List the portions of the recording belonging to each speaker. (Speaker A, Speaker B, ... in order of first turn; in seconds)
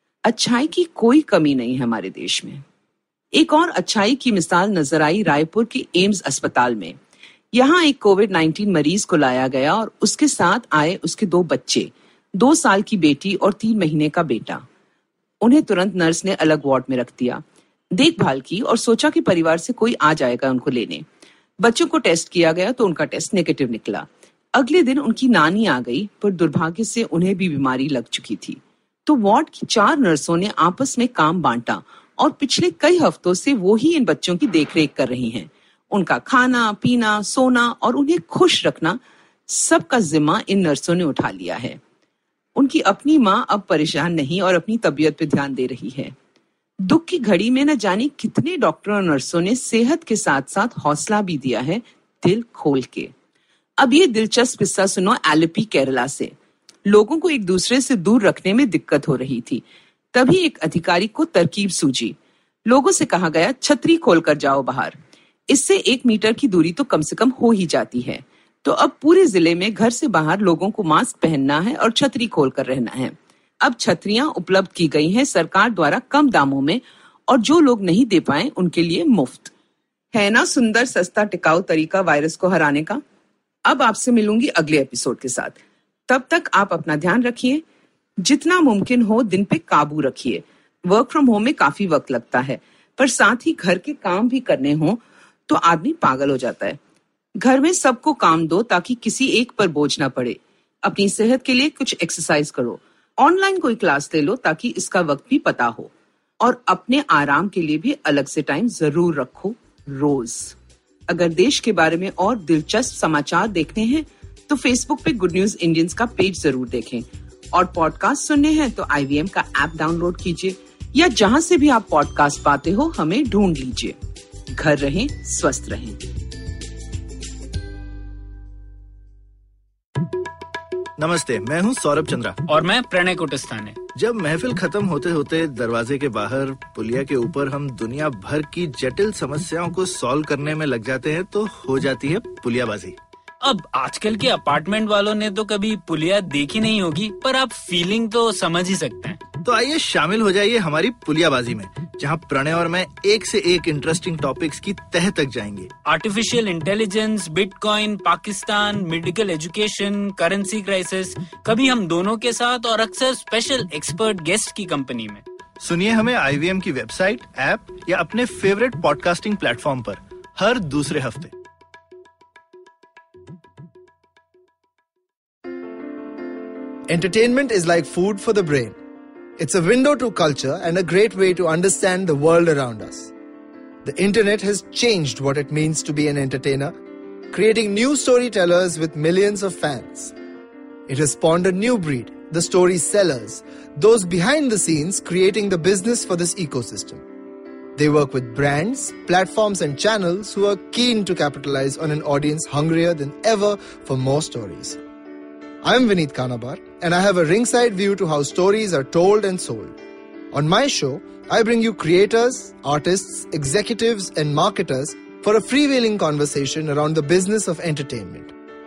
Speaker A: 0.2-2.6, 3.3-7.0, 7.5-14.6, 15.4-17.4, 17.9-21.0, 21.6-41.8, 42.5-46.1, 46.8-53.1, 53.8-56.3, 56.9-65.0, 65.5-79.5, 80.1-83.0, 83.7-87.6, 88.2-96.8, 97.4-110.5, 111.1-124.0, 124.5-126.0
Speaker B: 131.0-132.4, 133.9-143.0, 149.4-155.7, 165.6-171.3
Speaker C: 132.5-133.8, 143.4-149.2, 155.8-165.2
Speaker D: 176.9-178.8, 179.4-183.1, 183.8-186.7, 187.3-190.1, 190.9-197.0, 197.8-204.8, 205.6-209.7, 210.3-218.3